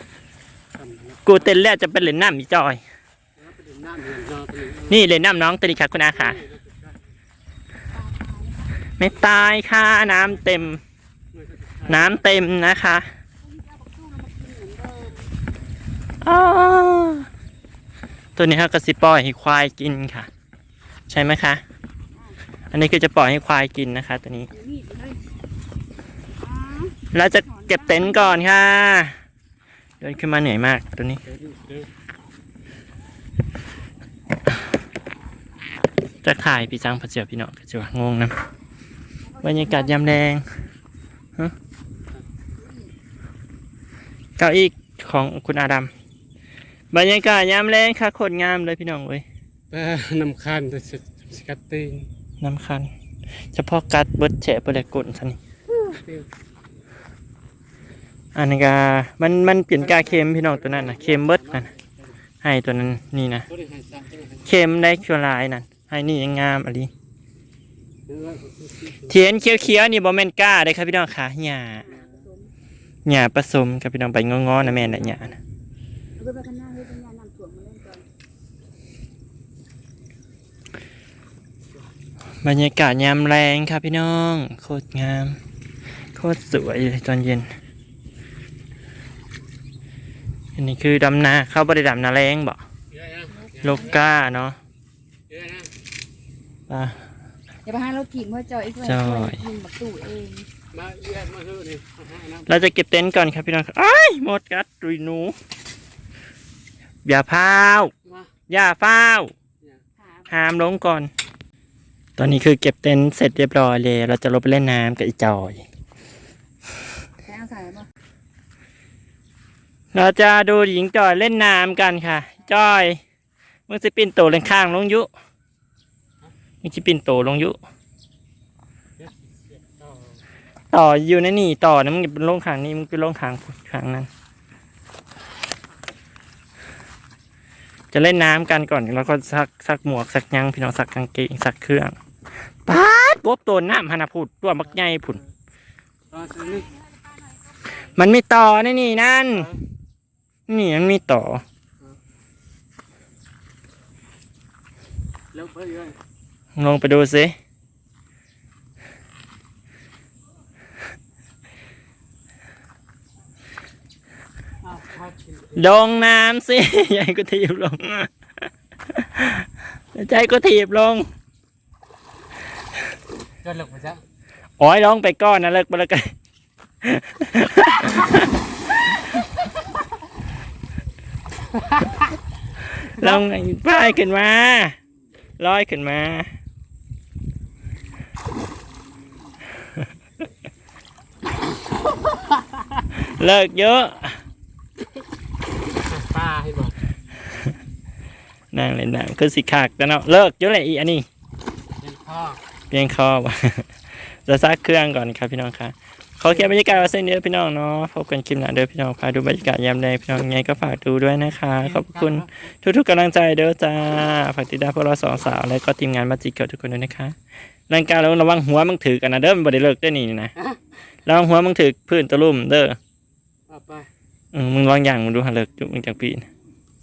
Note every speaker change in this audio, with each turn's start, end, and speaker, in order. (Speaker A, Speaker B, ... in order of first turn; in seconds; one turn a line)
Speaker A: 0.7-1.6
Speaker B: 1.2-2.8
Speaker A: 3.4-5.0
Speaker B: 4.9-6.4
Speaker A: 6.1-7.0
Speaker C: 7.9-8.8
Speaker B: 9.0-10.8
Speaker A: 11.3-12.2
Speaker B: 11.9-13.1
Speaker C: 13.4-15.3
Speaker B: 16.2-17.3
Speaker B: 18.4-20.3
Speaker B: 21.1-21.6
Speaker B: 22.7-24.5
Speaker C: 24.5-25.3
Speaker C: 26.4-28.6
Speaker B: 27.1-29.1
Speaker B: 30.0-31.2
Speaker A: 31.2-31.9
Speaker B: 36.2-38.4
Speaker C: 39.2-40.6
Speaker B: 39.4-40.4
Speaker B: 44.4-45.9
Speaker B: 46.9-49.2
Speaker A: 49.7-52.1
Speaker B: 52.4-52.9
Speaker B: 53.5-55.4
Speaker A: 55.7-56.3
Speaker B: 58.3-61.7
Speaker A: 59.8-62.1
Speaker B: 62.4-63.5
Speaker A: 63.5-64.5
Speaker B: 64.4-66.9
Speaker A: 68.1-69.2
Speaker B: 69.1-71.9
Speaker C: 71.8-72.5
Speaker B: 73.0-75.4
Speaker A: 74.6-75.3
Speaker C: 76.2-78.0
Speaker B: 82.4-85.4
Speaker B: 86.1-87.5
Speaker B: 90.6-92.6
Speaker A: 92.9-94.0
Speaker C: 93.3-93.9
Speaker B: 93.6-94.6
Speaker A: 95.3-95.7
Speaker B: 96.7-97.0
Speaker C: 97.6-100.5
Speaker B: 98.8-99.4
Speaker A: 100.7-102.6
Speaker B: 102.5-105.3
Speaker B: 107.0-107.9
Speaker B: 108.5-109.3
Speaker C: 110.0-110.3
Speaker B: 110.3-111.1
Speaker B: 112.2-115.6
Speaker C: 117.2-117.9
Speaker B: 119.9-123.0
Speaker B: 123.7-125.1
Speaker B: 126.6-127.6
Speaker A: 129.0-130.2
Speaker B: 130.7-134.1
Speaker B: 137.9-141.9
Speaker B: 142.7-145.2
Speaker A: 146.1-146.7
Speaker B: 147.8-149.5
Speaker A: 149.3-149.6
Speaker B: 150.5-151.4
Speaker A: 155.3-155.9
Speaker B: 156.6-157.3
Speaker A: 164.6-165.7
Speaker B: 165.5-168.1
Speaker B: 168.9-171.1
Speaker A: 173.4-174.0
Speaker B: 174.6-176.1
Speaker B: 176.8-178.3
Speaker A: 181.5-182.1
Speaker B: 182.7-184.8
Speaker A: 183.0-183.2
Speaker B: 185.4-186.3
Speaker A: 192.1-192.6
Speaker B: 192.9-194.2
Speaker A: 195.7-196.8
Speaker B: 198.5-201.1
Speaker A: 201.8-202.4
Speaker B: 202.7-217.2
Speaker A: 206.2-206.9
Speaker A: 211.6-212.4
Speaker B: 217.7-220.3
Speaker B: 221.1-222.8
Speaker A: 223.5-223.9
Speaker B: 224.3-226.3